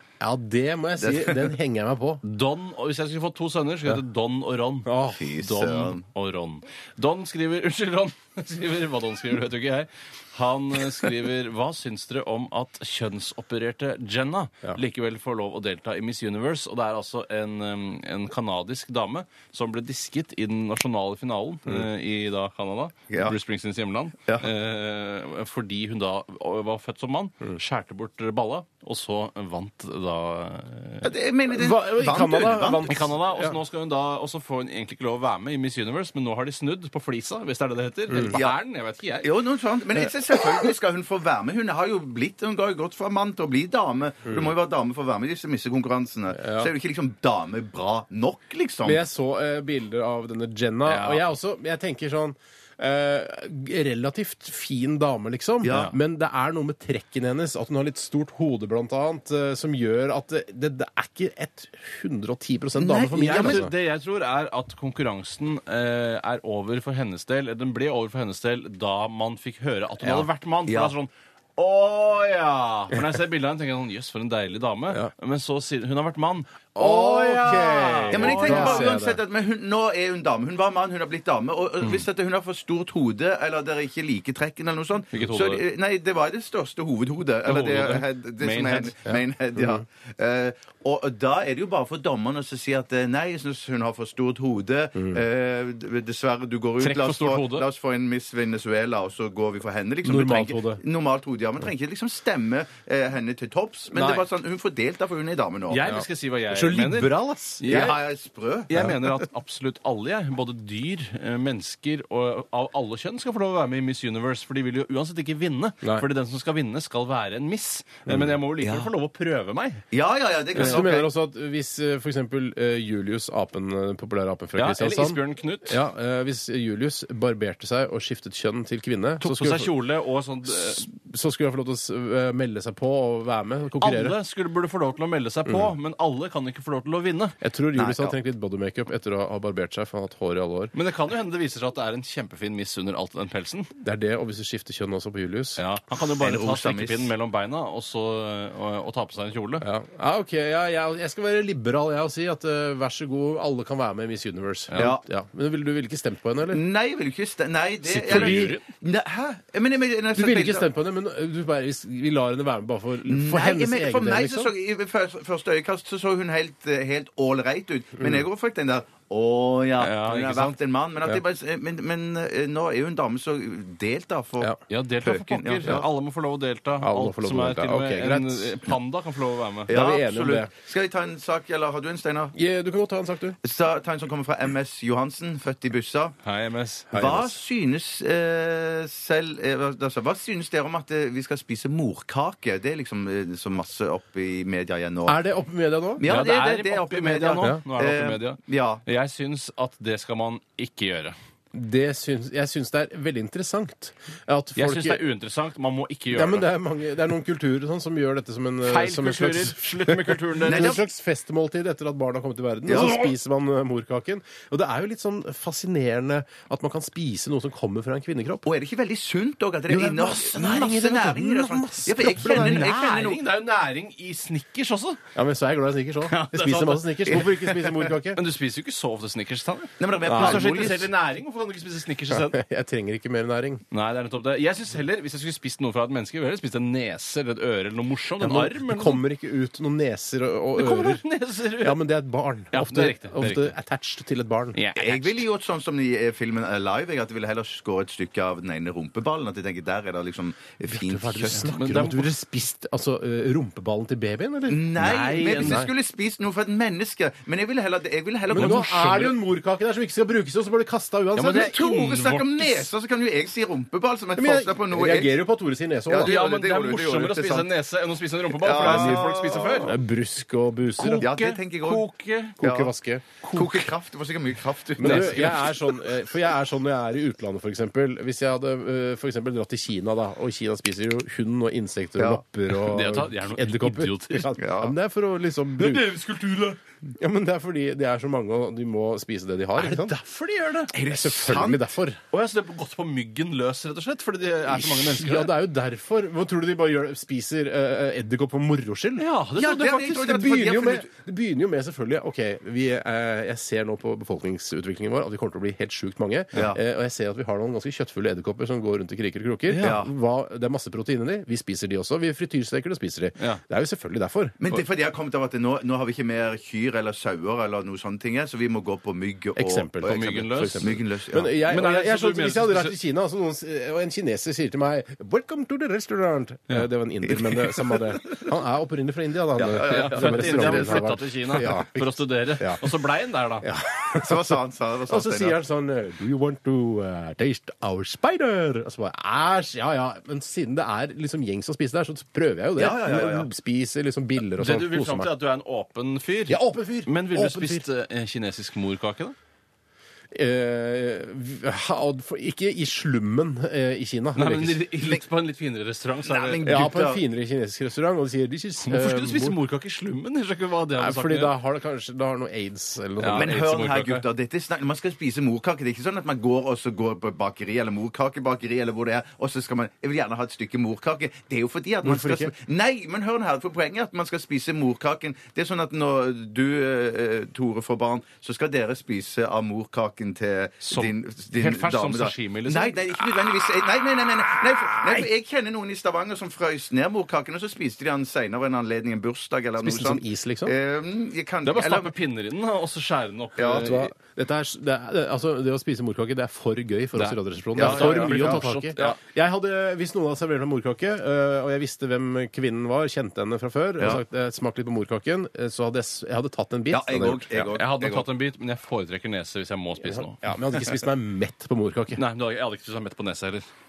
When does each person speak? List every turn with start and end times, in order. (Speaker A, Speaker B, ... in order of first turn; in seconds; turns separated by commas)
Speaker A: 0.2-2.2, Speaker B: 1.0-1.5, Speaker C: 2.2-31.1, Speaker A: 4.8-5.3, Speaker B: 5.2-6.0, Speaker B: 23.1-23.4, Speaker B: 31.0-33.0, Speaker A: 31.5-33.5, Speaker C: 32.9-39.3, Speaker A: 38.1-38.4, Speaker B: 38.3-38.6, Speaker B: 39.2-49.0, Speaker A: 44.2-44.5, Speaker A: 46.3-46.7, Speaker A: 48.8-63.7, Speaker C: 50.9-51.2, Speaker B: 55.6-55.9, Speaker C: 55.7-56.0, Speaker B: 62.8-63.6, Speaker C: 63.1-79.0, Speaker B: 70.1-70.9, Speaker A: 76.8-79.2, Speaker B: 78.1-105.8, Speaker C: 85.1-85.6, Speaker C: 87.4-88.9, Speaker A: 89.0-89.8, Speaker C: 96.8-97.7, Speaker A: 100.0-100.8, Speaker A: 104.0-104.2, Speaker C: 105.7-108.0, Speaker A: 105.8-107.9, Speaker B: 107.7-108.8, Speaker C: 108.7-119.8, Speaker B: 118.6-118.9, Speaker B: 119.9-121.1, Speaker A: 120.5-129.7, Speaker C: 120.6-120.8, Speaker C: 124.6-125.8, Speaker C: 129.2-130.9, Speaker A: 130.6-134.1, Speaker C: 133.8-137.3, Speaker A: 135.4-135.7, Speaker A: 137.4-140.7, Speaker B: 137.7-138.1, Speaker C: 140.7-143.7, Speaker A: 143.8-145.6, Speaker C: 145.6-149.6, Speaker B: 146.2-147.1, Speaker A: 149.6-156.6, Speaker B: 154.8-155.0, Speaker B: 156.5-160.7, Speaker C: 157.8-158.7, Speaker A: 158.0-158.5, Speaker A: 160.1-164.5, Speaker B: 163.1-175.9, Speaker C: 169.8-170.6, Speaker C: 174.7-179.7, Speaker A: 176.8-178.6, Speaker B: 179.7-182.3, Speaker A: 179.7-180.5, Speaker A: 182.3-183.4, Speaker B: 183.4-186.2, Speaker C: 186.2-186.9, Speaker A: 186.9-187.3, Speaker B: 186.9-195.2, Speaker A: 195.1-196.0, Speaker B: 196.0-198.8, Speaker C: 196.0-201.1, Speaker A: 201.5-205.0, Speaker C: 204.6-206.5, Speaker A: 206.1-218.4, Speaker C: 208.6-210.8, Speaker B: 210.4-210.8, Speaker B: 212.7-213.1, Speaker B: 218.4-223.2, Speaker A: 219.7-222.9, Speaker C: 222.2-225.0, Speaker A: 225.1-228.2, Speaker C: 226.0-232.4, Speaker B: 229.8-230.9, Speaker A: 230.1-230.4, Speaker A: 232.1-233.6, Speaker C: 233.7-239.0, Speaker A: 238.2-241.0, Speaker C: 240.6-241.8, Speaker A: 241.6-244.6, Speaker C: 242.5-243.5, Speaker C: 244.5-245.2, Speaker B: 244.8-251.6, Speaker A: 250.7-255.7, Speaker C: 251.3-252.1, Speaker B: 254.5-259.1, Speaker C: 254.8-255.7, Speaker A: 258.3-261.5, Speaker C: 258.3-258.7, Speaker C: 261.1-262.7, Speaker B: 261.2-265.1, Speaker A: 264.2-266.1, Speaker B: 265.9-267.5, Speaker C: 265.9-269.7, Speaker B: 268.3-269.7, Speaker A: 268.5-271.1, Speaker C: 270.8-272.4, Speaker B: 271.0-271.9, Speaker B: 272.4-272.7, Speaker A: 272.4-273.5, Speaker C: 273.2-273.5, Speaker B: 273.3-275.5, Speaker A: 274.8-285.9, Speaker C: 274.8-275.5, Speaker C: 282.5-284.3, Speaker B: 284.4-284.7, Speaker C: 285.6-286.6, Speaker A: 287.0-290.0, Speaker C: 289.5-290.7, Speaker B: 290.7-291.7, Speaker A: 290.8-292.0, Speaker C: 292.1-295.3, Speaker A: 294.6-299.0, Speaker C: 299.0-300.1, Speaker B: 299.4-300.9, Speaker A: 299.8-314.4, Speaker B: 306.3-306.6, Speaker C: 309.5-309.8, Speaker B: 309.6-309.9, Speaker B: 314.4-321.3, Speaker A: 319.4-332.6, Speaker C: 319.9-320.8, Speaker C: 321.4-322.8, Speaker B: 327.2-328.2, Speaker B: 329.4-330.9, Speaker C: 329.6-333.5, Speaker A: 333.4-334.3, Speaker B: 333.9-335.4, Speaker A: 334.9-345.1, Speaker B: 342.6-343.3, Speaker C: 344.4-349.1, Speaker A: 346.3-347.6, Speaker A: 350.1-354.6, Speaker C: 354.1-356.5, Speaker B: 356.0-357.0, Speaker A: 356.4-359.4, Speaker C: 358.6-361.3, Speaker A: 360.8-363.4, Speaker C: 363.0-364.0, Speaker B: 363.1-391.9, Speaker A: 371.8-372.3, Speaker C: 380.6-383.0, Speaker A: 389.6-390.5, Speaker C: 391.4-393.9, Speaker B: 393.4-393.7, Speaker A: 393.5-407.5, Speaker C: 396.9-398.9, Speaker B: 397.6-399.0, Speaker B: 406.7-408.1, Speaker C: 407.5-410.6, Speaker A: 409.8-412.0, Speaker C: 411.9-413.4